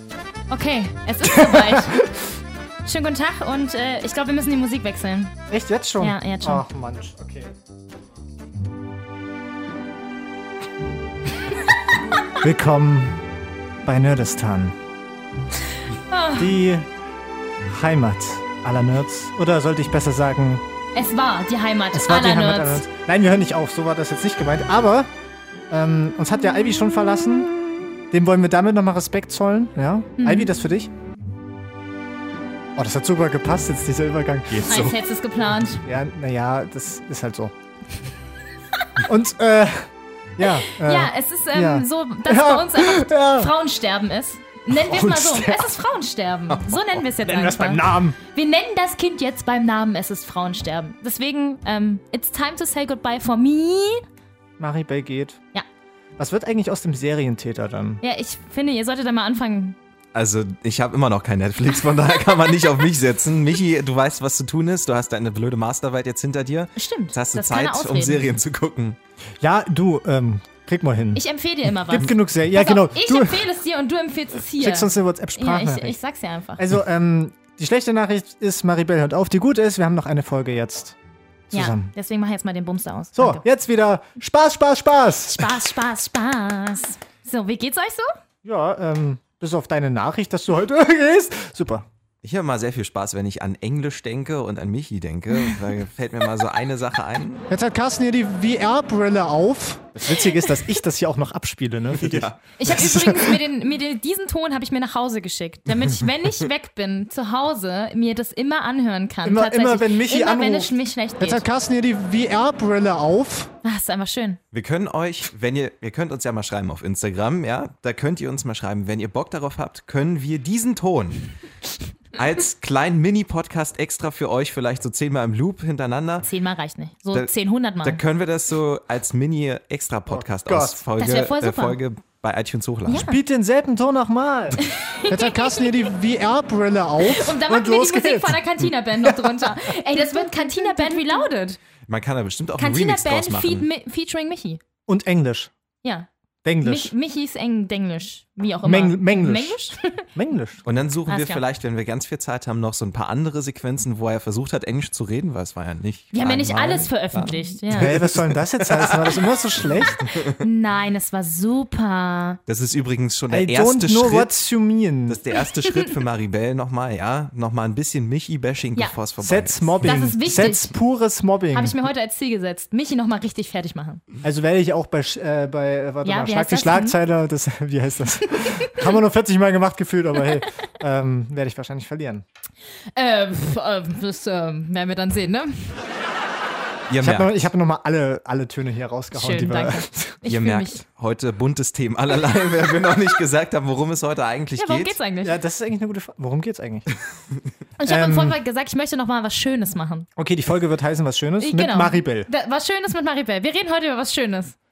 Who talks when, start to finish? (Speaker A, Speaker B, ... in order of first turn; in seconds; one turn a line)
Speaker A: 0.5-2.0
Speaker B: 1.3-2.1
Speaker A: 2.8-5.3
Speaker B: 5.5-7.5
Speaker A: 6.0-6.6
Speaker B: 12.4-13.2
Speaker B: 13.8-14.8
Speaker A: 16.1-16.6
Speaker B: 16.4-16.9
Speaker B: 17.7-20.6
Speaker A: 20.9-22.9
Speaker B: 21.9-25.1
Speaker B: 25.7-27.5
Speaker B: 28.1-30.9
Speaker A: 30.2-30.5
Speaker B: 32.8-34.7
Speaker C: 34.5-35.0
Speaker A: 34.7-35.8
Speaker B: 35.8-37.5
Speaker B: 39.0-43.5
Speaker A: 40.4-54.0
Speaker B: 44.7-45.7
Speaker C: 46.5-47.0
Speaker B: 47.2-48.2
Speaker B: 54.6-55.4
Speaker B: 56.2-58.0
Speaker A: 58.0-59.8
Speaker C: 60.1-69.0
Speaker A: 66.8-68.3
Speaker B: 69.4-73.5
Speaker A: 71.1-76.6
Speaker B: 74.6-76.0
Speaker B: 76.6-81.0
Speaker B: 81.5-81.9
Speaker A: 81.5-83.4
Speaker B: 83.1-85.5
Speaker A: 85.3-88.1
Speaker B: 88.4-91.9
Speaker C: 92.2-97.4
Speaker B: 97.5-103.4
Speaker A: 100.1-100.3
Speaker C: 102.0-102.4
Speaker A: 102.6-111.4
Speaker B: 109.2-113.5
Speaker A: 113.6-114.4
Speaker C: 114.5-121.3
Speaker C: 122.1-126.3
Speaker A: 126.2-128.0
Speaker C: 127.8-133.0
Speaker B: 130.1-130.8
Speaker A: 131.0-131.8
Speaker A: 132.9-133.2
Speaker B: 133.0-141.2
Speaker A: 134.6-135.9
Speaker A: 137.0-141.6
Speaker C: 141.9-143.7
Speaker A: 142.6-144.6
Speaker B: 144.9-145.5
Speaker A: 145.8-146.1
Speaker B: 146.4-146.9
Speaker A: 146.6-150.1
Speaker B: 148.6-150.7
Speaker C: 150.6-159.2
Speaker A: 151.1-151.4
Speaker A: 156.1-157.9
Speaker B: 157.7-160.2
Speaker C: 160.1-160.4
Speaker A: 160.4-162.4
Speaker C: 162.5-164.3
Speaker B: 163.3-165.2
Speaker C: 165.1-170.0
Speaker B: 169.2-171.8
Speaker A: 169.8-170.7
Speaker A: 171.5-174.0
Speaker B: 174.2-182.2
Speaker A: 176.0-177.0
Speaker A: 178.4-178.7
Speaker A: 182.9-185.8
Speaker C: 186.9-187.3
Speaker B: 187.0-190.2
Speaker A: 189.1-190.8
Speaker C: 190.2-194.9
Speaker A: 194.6-195.3
Speaker B: 195.2-196.9
Speaker A: 197.8-200.1
Speaker B: 197.8-198.4
Speaker B: 200.2-202.3
Speaker A: 201.4-204.6